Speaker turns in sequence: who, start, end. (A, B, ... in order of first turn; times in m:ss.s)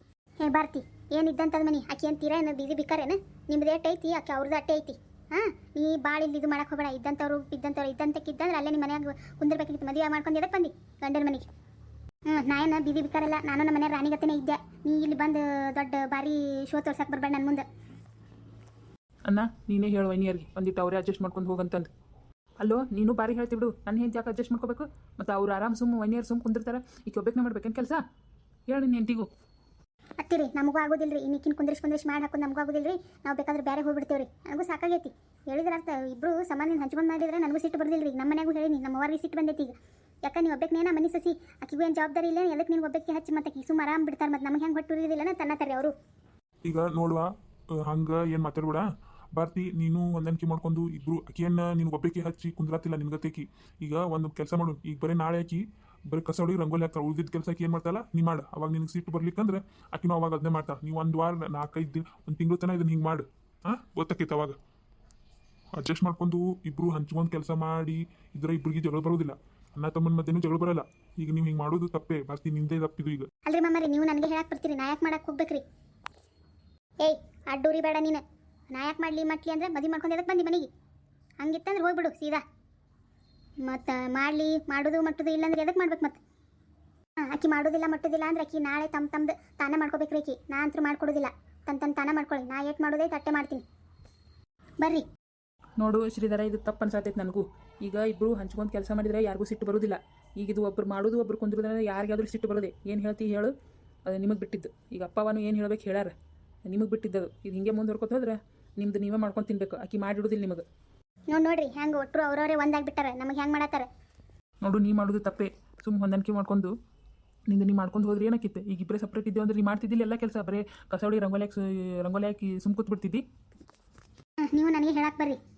0:00.4-0:11.5 A
0:12.3-0:17.6 A
0:19.2-0:21.9 B
0:22.6-0:28.0 B
0:28.7-0:29.3 B
0:30.2-0:45.9 A
0:46.6-0:47.3 C
0:47.8-1:04.6 C
1:05.8-1:13.3 C
1:13.4-1:15.6 A
1:17.0-1:20.7 A
1:21.4-1:22.4 A
1:23.6-1:26.2 A
1:27.2-1:33.6 A
1:35.8-1:43.5 B
1:44.0-1:46.1 B
1:46.6-1:50.6 B
1:51.3-1:53.9 A
1:54.6-1:56.7 B
1:57.5-2:03.2 B
2:04.4-2:05.4 A